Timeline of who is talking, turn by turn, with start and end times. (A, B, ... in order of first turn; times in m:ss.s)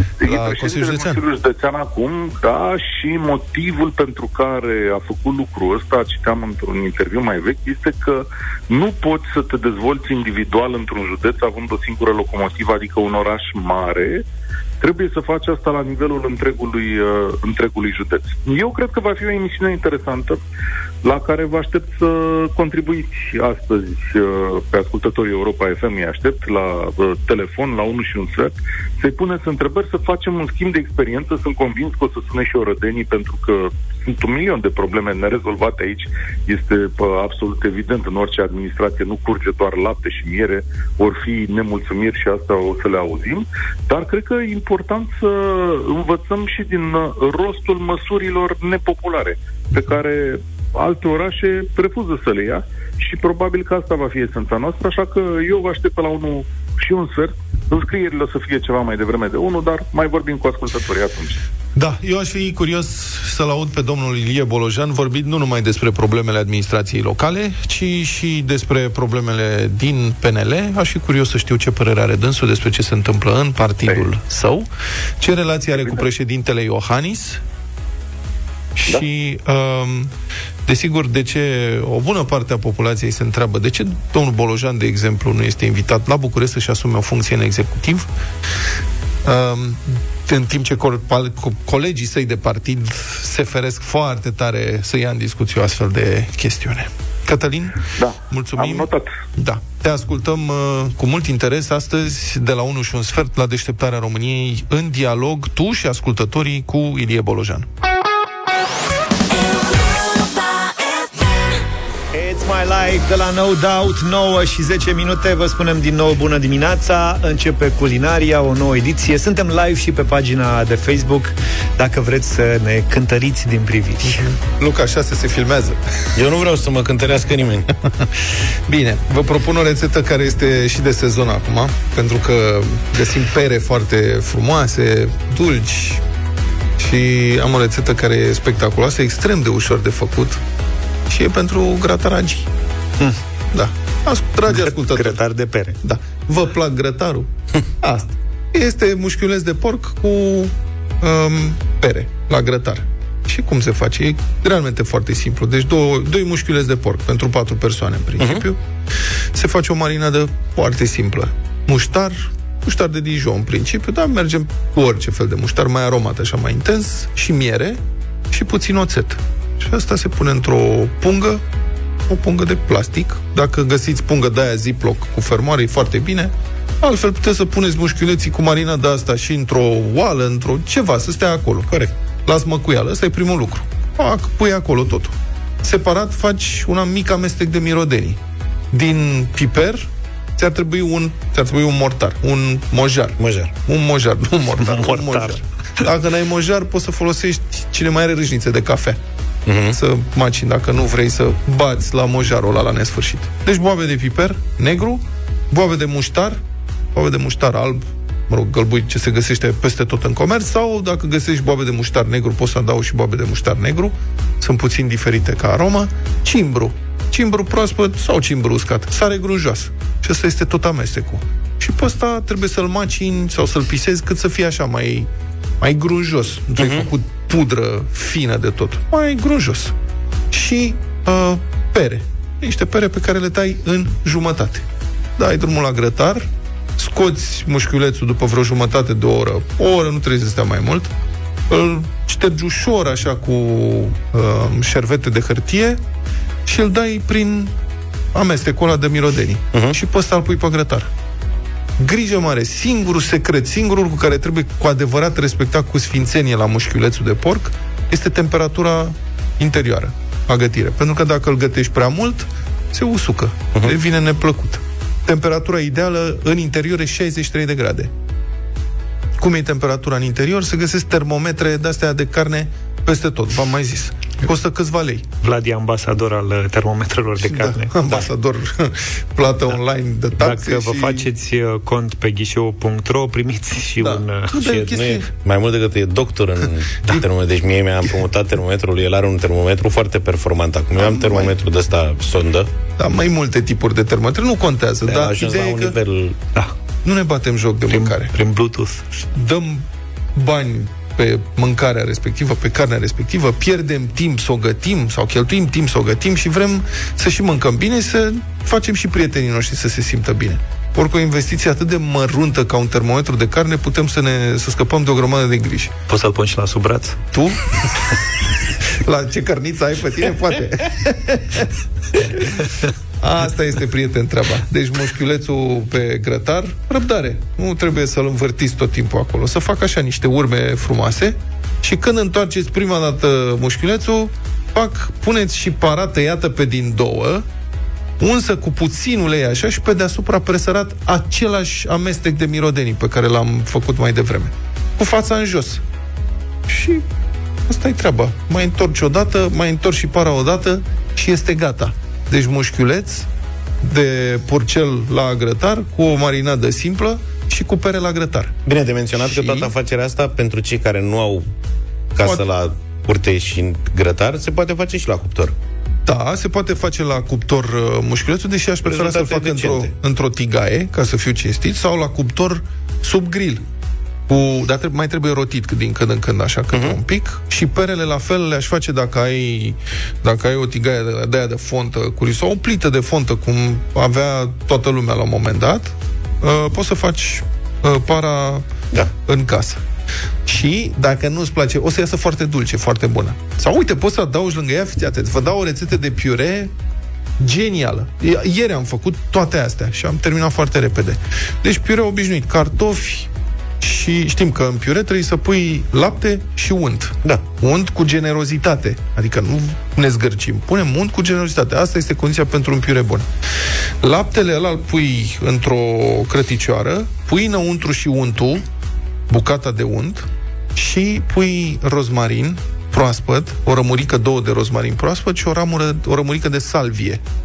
0:00.2-0:14.2 A
0:00.2-0:01.2 B
0:14.8-0:20.4 A
0:21.0-1:01.4 A
1:01.7-1:14.7 B
1:15.2-1:17.4 B
1:18.8-1:20.1 B
1:20.6-1:28.1 B
1:29.2-1:47.7 B
1:38.0-1:39.1 A
1:52.1-2:04.2 C
2:04.0-2:05.8 B
2:06.2-2:07.7 D
2:08.7-2:16.0 B
2:16.8-2:20.4 B
2:21.1-2:22.5 B
2:23.5-2:25.2 B
2:24.5-2:25.8 C
2:25.8-2:38.6 B
2:39.3-2:51.4 B
2:52.1-3:08.2 B
3:08.7-3:19.0 B
3:13.2-3:13.5 D
3:14.6-3:15.4 C
3:19.4-3:19.8 D
3:19.7-3:26.4 B
3:26.9-3:45.1 B
3:45.6-3:49.7 B
3:46.6-3:46.9 D
3:50.3-3:54.6 B
3:55.2-3:56.2 B
3:56.8-4:00.9 B
4:01.5-4:05.8 B
4:06.4-4:07.5 B
4:08.1-4:10.9 B
4:11.8-4:27.9 B
4:29.2-4:35.0 B
4:35.2-4:38.0 C
4:37.2-4:41.1 B
4:40.2-4:44.3 C
4:43.8-4:45.1 B
4:44.4-4:52.5 D
4:50.8-4:51.3 B
4:52.8-4:55.8 B
4:54.8-4:56.2 D
4:56.8-4:58.1 B
4:57.7-4:59.0 C
4:59.1-5:15.7 B
5:15.9-5:17.0 C
5:17.1-5:17.4 B
5:18.8-5:21.4 B
5:23.0-5:37.2 B
5:38.0-5:45.6 B
5:46.5-5:46.8 B
5:47.5-5:53.1 B
5:53.6-5:58.4 B
5:58.4-6:01.3 D
5:59.0-5:59.5 B
6:01.9-6:05.3 D
6:05.9-6:13.4 B
6:08.6-6:09.7 D
6:14.1-6:28.4 B
6:29.0-6:29.6 B
6:30.2-6:36.5 B
6:37.2-6:53.0 B
6:53.8-6:58.4 B
6:59.1-7:07.0 B